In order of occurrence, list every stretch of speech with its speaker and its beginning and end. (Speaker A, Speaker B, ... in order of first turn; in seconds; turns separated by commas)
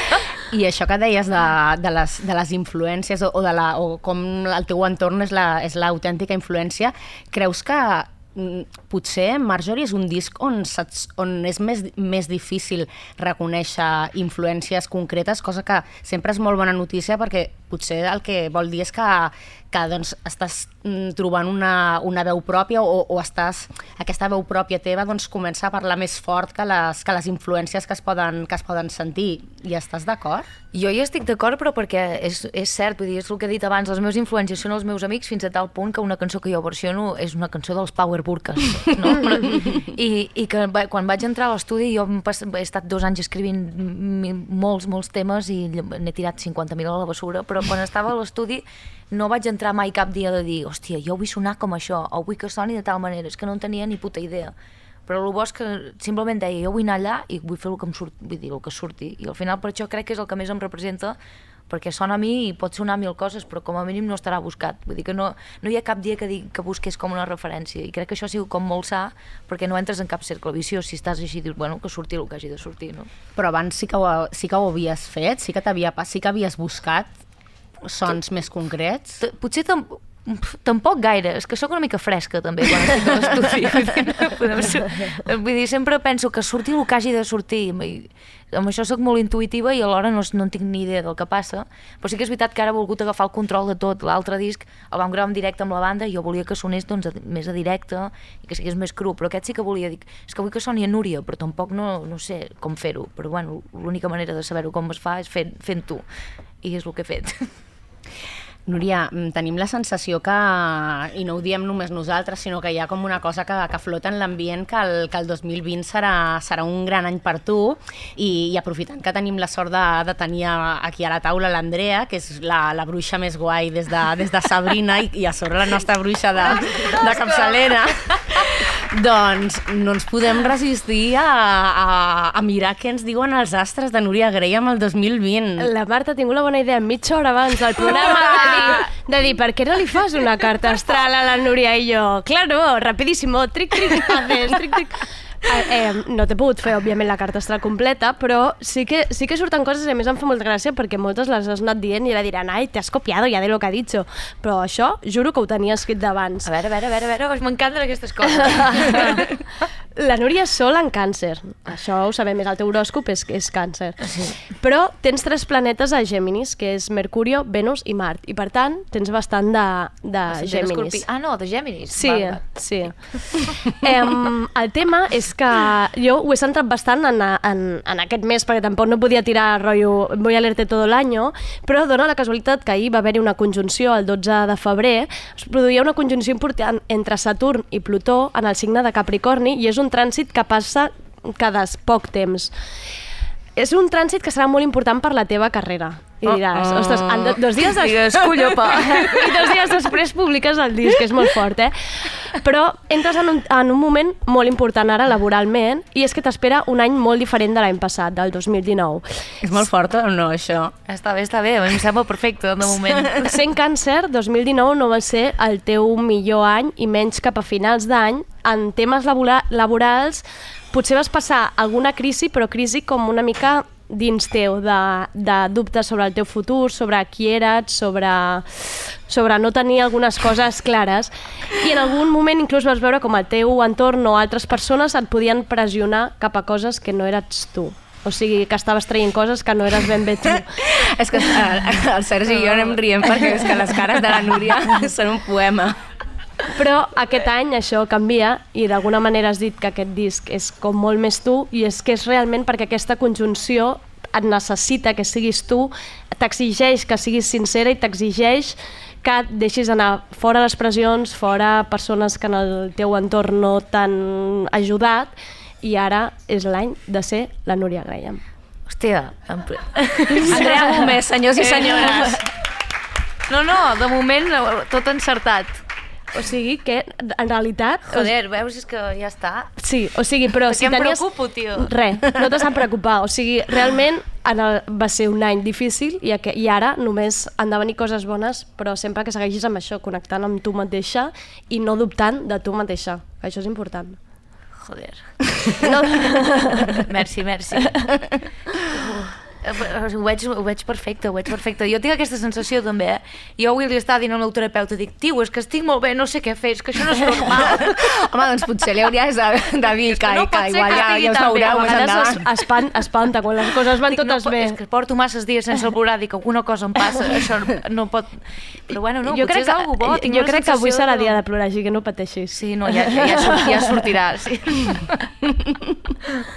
Speaker A: 0.5-30.5, Speaker B: 30.7-54.5, Speaker B: 55.1-61.1, Speaker B: 61.7-73.1, Speaker A: 73.3-77.1, Speaker A: 77.8-79.2, Speaker B: 79.2-106.0, Speaker B: 106.6-107.3, Speaker A: 108.7-135.7, Speaker C: 135.6-156.5, Speaker A: 137.8-138.7, Speaker B: 156.4-159.2, Speaker C: 158.3-159.2, Speaker C: 160.0-164.0, Speaker B: 164.0-164.3, Speaker C: 164.5-171.1, Speaker B: 170.3-172.4, Speaker C: 171.9-192.5, Speaker C: 193.6-201.7, Speaker B: 196.2-199.5, Speaker C: 202.3-209.0, Speaker A: 209.4-210.7, Speaker B: 210.9-213.4, Speaker A: 212.7-213.1, Speaker C: 213.2-240.5, Speaker A: 240.4-245.8, Speaker C: 242.3-242.8, Speaker C: 246.5-268.2, Speaker B: 268.7-270.9, Speaker C: 270.1-272.1, Speaker A: 270.3-272.2, Speaker B: 273.3-275.6, Speaker C: 276.1-278.1, Speaker B: 277.9-279.5, Speaker C: 279.6-294.0, Speaker B: 280.4-281.7, Speaker B: 294.6-295.1, Speaker C: 295.6-296.6, Speaker B: 296.7-297.8, Speaker B: 298.7-307.8, Speaker A: 307.7-312.3, Speaker B: 309.8-312.2, Speaker C: 311.5-314.6, Speaker B: 313.9-321.2, Speaker C: 319.0-323.7, Speaker B: 322.3-324.8